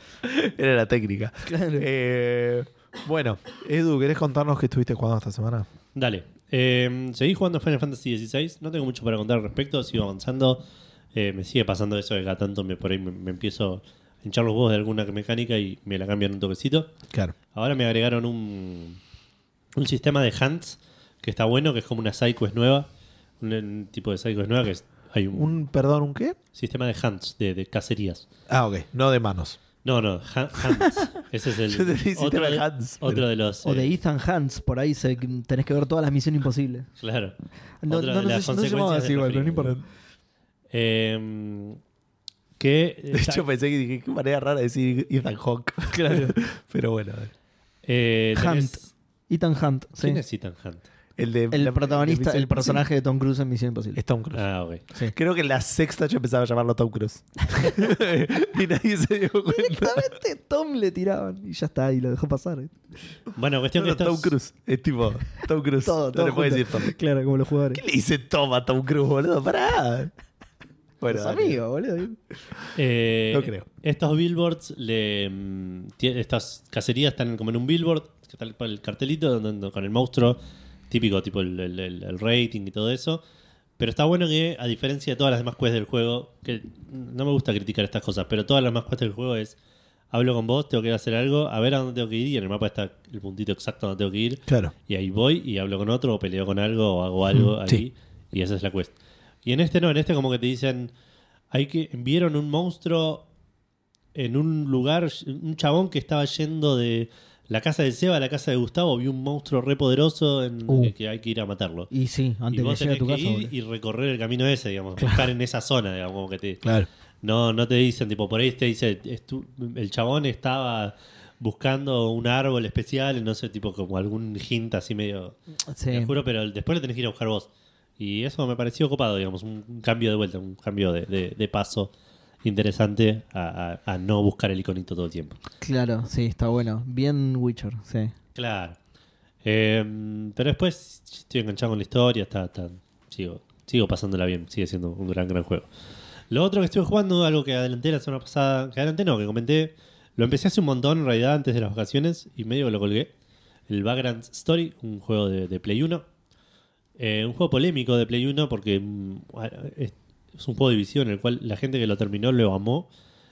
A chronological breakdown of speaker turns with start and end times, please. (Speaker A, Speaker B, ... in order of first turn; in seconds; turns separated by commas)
Speaker A: 0.2-5.7, Speaker B: 1.4-1.9, Speaker C: 6.0-10.6, Speaker C: 11.1-16.9, Speaker C: 17.5-19.0, Speaker C: 19.8-22.9, Speaker C: 23.4-25.5, Speaker A: 25.3-26.4, Speaker C: 26.6-28.2, Speaker A: 28.5-29.6, Speaker C: 29.8-34.0, Speaker A: 31.7-33.3, Speaker B: 33.6-36.9, Speaker C: 37.0-37.4, Speaker B: 37.8-39.8, Speaker C: 37.9-39.8, Speaker C: 40.7-41.8, Speaker C: 42.6-43.5, Speaker A: 43.1-47.3, Speaker B: 45.9-46.4, Speaker C: 47.9-48.9, Speaker B: 48.4-50.2, Speaker C: 50.0-50.9, Speaker A: 51.2-52.9, Speaker B: 51.5-54.0, Speaker A: 54.0-54.4, Speaker C: 54.3-54.8, Speaker A: 55.1-60.1, Speaker B: 59.5-62.7, Speaker C: 63.4-64.3, Speaker A: 63.8-66.9, Speaker B: 65.8-67.8, Speaker A: 67.7-70.1, Speaker A: 71.0-71.6, Speaker B: 71.1-72.2, Speaker C: 72.8-80.4, Speaker A: 73.3-73.7, Speaker C: 80.9-83.2, Speaker C: 83.8-89.5, Speaker C: 90.1-98.9, Speaker A: 94.5-94.7, Speaker A: 97.5-97.8, Speaker C: 99.5-100.9, Speaker C: 101.5-103.2, Speaker C: 104.1-111.9, Speaker B: 110.7-110.9, Speaker B: 111.9-113.5, Speaker C: 112.5-116.6, Speaker B: 115.0-115.2, Speaker C: 117.2-125.4, Speaker B: 125.7-126.1, Speaker C: 125.9-127.5, Speaker C: 128.0-131.9, Speaker C: 132.4-135.4, Speaker B: 135.6-138.1, Speaker C: 138.3-138.8, Speaker C: 139.4-145.7, Speaker C: 146.3-153.1, Speaker C: 153.7-156.0, Speaker C: 157.0-162.9